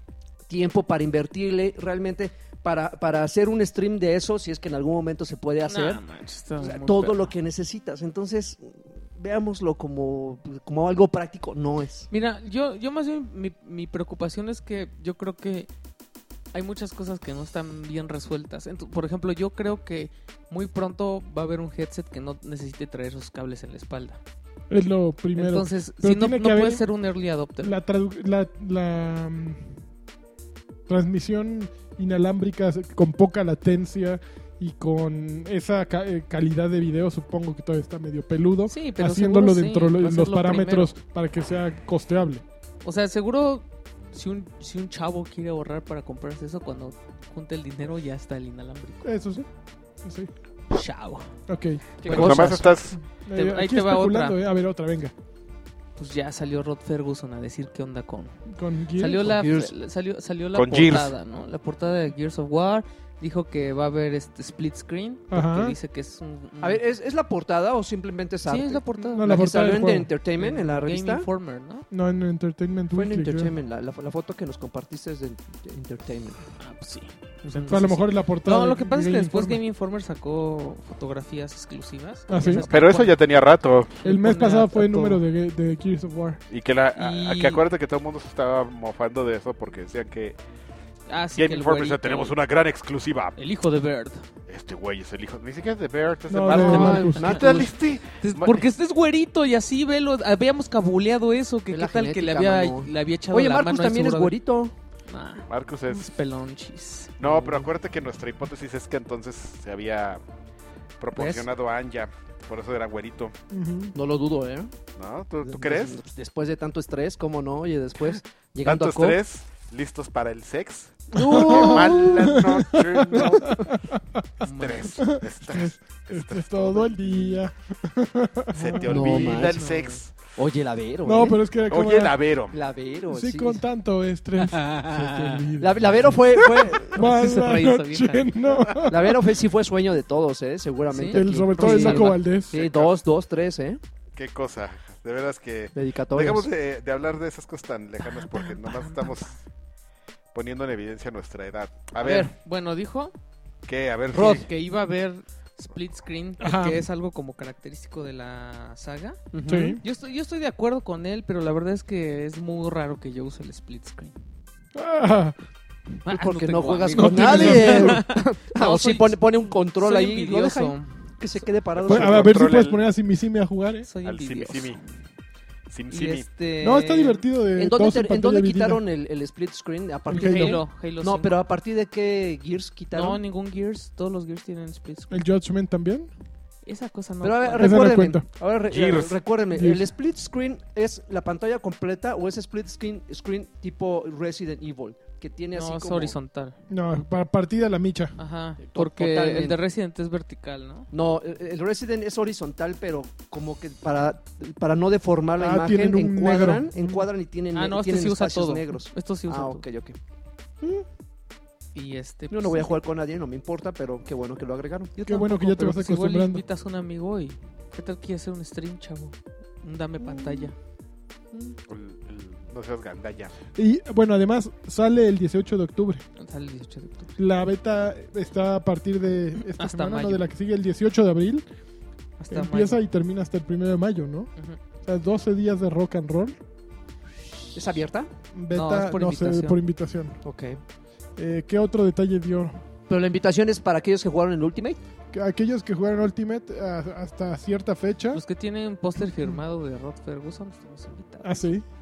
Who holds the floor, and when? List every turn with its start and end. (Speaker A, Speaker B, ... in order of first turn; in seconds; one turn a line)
Speaker A: 0.5-6.0
Speaker B: 5.6-7.3
Speaker A: 6.6-12.1
Speaker B: 12.1-15.7
Speaker B: 16.5-24.2
Speaker C: 24.7-26.8
Speaker B: 25.3-27.8
Speaker C: 27.6-29.6
Speaker C: 30.9-42.4
Speaker B: 38.7-40.9
Speaker B: 42.8-49.1
Speaker C: 49.0-49.5
Speaker C: 50.0-50.3
Speaker B: 50.7-51.3
Speaker C: 51.5-55.1
Speaker A: 52.0-52.6
Speaker B: 52.0-52.7
Speaker D: 52.0-53.0
Speaker B: 53.3-54.4
Speaker B: 56.0-58.3
Speaker C: 58.5-59.2
Speaker B: 58.9-66.8
Speaker A: 59.0-59.7
Speaker D: 60.5-61.1
Speaker C: 65.3-65.7
Speaker A: 66.6-71.3
Speaker B: 68.5-69.3
Speaker C: 69.1-70.1
Speaker B: 70.3-71.9
Speaker C: 71.9-73.5
Speaker A: 72.9-76.4
Speaker B: 76.6-83.2
Speaker C: 77.5-79.6
Speaker C: 82.3-82.7
Speaker D: 82.7-84.0
Speaker C: 84.0-86.4
Speaker B: 84.0-85.2
Speaker D: 86.5-90.4
Speaker B: 87.0-87.6
Speaker B: 91.1-92.3
Speaker D: 91.3-93.4
Speaker B: 93.3-94.2
Speaker D: 94.5-98.6
Speaker C: 96.3-97.4
Speaker A: 96.5-97.7
Speaker B: 96.5-104.3
Speaker A: 101.7-104.7
Speaker B: 105.1-107.7
Speaker D: 105.5-106.0
Speaker D: 107.2-110.2
Speaker D: 111.0-113.3
Speaker B: 111.2-111.5
Speaker C: 113.5-113.9
Speaker A: 113.9-114.7
Speaker D: 115.0-116.0
Speaker A: 115.4-119.2
Speaker D: 118.6-123.7
Speaker A: 121.1-122.4
Speaker C: 121.2-124.2
Speaker A: 123.1-123.5
Speaker B: 124.4-125.0
Speaker D: 124.4-127.4
Speaker C: 125.0-129.2
Speaker D: 128.5-130.2
Speaker A: 128.8-129.6
Speaker B: 128.8-130.0
Speaker A: 130.3-131.4
Speaker C: 131.0-132.2
Speaker D: 131.7-132.6
Speaker A: 132.5-133.6
Speaker C: 133.1-139.3
Speaker B: 134.4-135.5
Speaker A: 135.6-137.1
Speaker B: 136.8-138.3
Speaker A: 138.9-143.8
Speaker B: 140.9-142.2
Speaker C: 141.1-142.5
Speaker D: 142.5-143.0
Speaker D: 144.2-149.3
Speaker A: 145.7-146.4
Speaker B: 148.0-149.4
Speaker D: 150.3-152.3
Speaker A: 152.0-152.3
Speaker B: 152.3-153.1
Speaker D: 153.7-154.4
Speaker A: 154.1-154.4
Speaker B: 154.1-159.2
Speaker C: 156.4-156.8
Speaker A: 159.3-159.8
Speaker C: 159.4-159.8
Speaker B: 159.8-164.1
Speaker C: 164.7-165.3
Speaker B: 166.0-169.2
Speaker A: 166.1-172.5
Speaker C: 166.9-168.0
Speaker B: 169.8-171.0
Speaker D: 171.7-172.8
Speaker C: 171.9-173.9
Speaker B: 173.8-174.8
Speaker D: 174.0-174.8
Speaker D: 175.7-176.3
Speaker B: 175.9-177.2
Speaker C: 176.6-178.8
Speaker A: 177.6-183.2
Speaker B: 180.1-181.3
Speaker C: 180.1-180.6
Speaker B: 182.9-185.2
Speaker C: 185.1-186.1
Speaker B: 186.6-188.0
Speaker A: 187.2-196.1
Speaker C: 187.6-188.2
Speaker D: 188.7-189.2
Speaker C: 189.5-189.9
Speaker B: 195.5-196.6
Speaker C: 196.7-198.1
Speaker B: 198.2-200.9
Speaker A: 198.6-199.6
Speaker A: 200.9-210.0
Speaker C: 205.4-207.1
Speaker B: 207.5-209.6
Speaker A: 210.6-210.8
Speaker B: 211.7-212.8
Speaker A: 212.3-215.1
Speaker B: 215.0-220.5
Speaker C: 215.1-216.4
Speaker A: 220.0-220.5
Speaker D: 221.7-223.3
Speaker C: 223.5-226.0
Speaker B: 226.2-227.1
Speaker C: 227.2-231.4
Speaker B: 229.5-230.2
Speaker B: 232.2-232.8
Speaker C: 232.3-234.3
Speaker C: 234.8-236.3
Speaker A: 237.5-238.1
Speaker C: 238.3-240.2
Speaker B: 238.5-239.6
Speaker A: 240.2-240.6
Speaker C: 241.2-242.6
Speaker A: 242.9-244.8
Speaker C: 245.1-248.2
Speaker B: 248.1-251.3
Speaker C: 251.2-251.6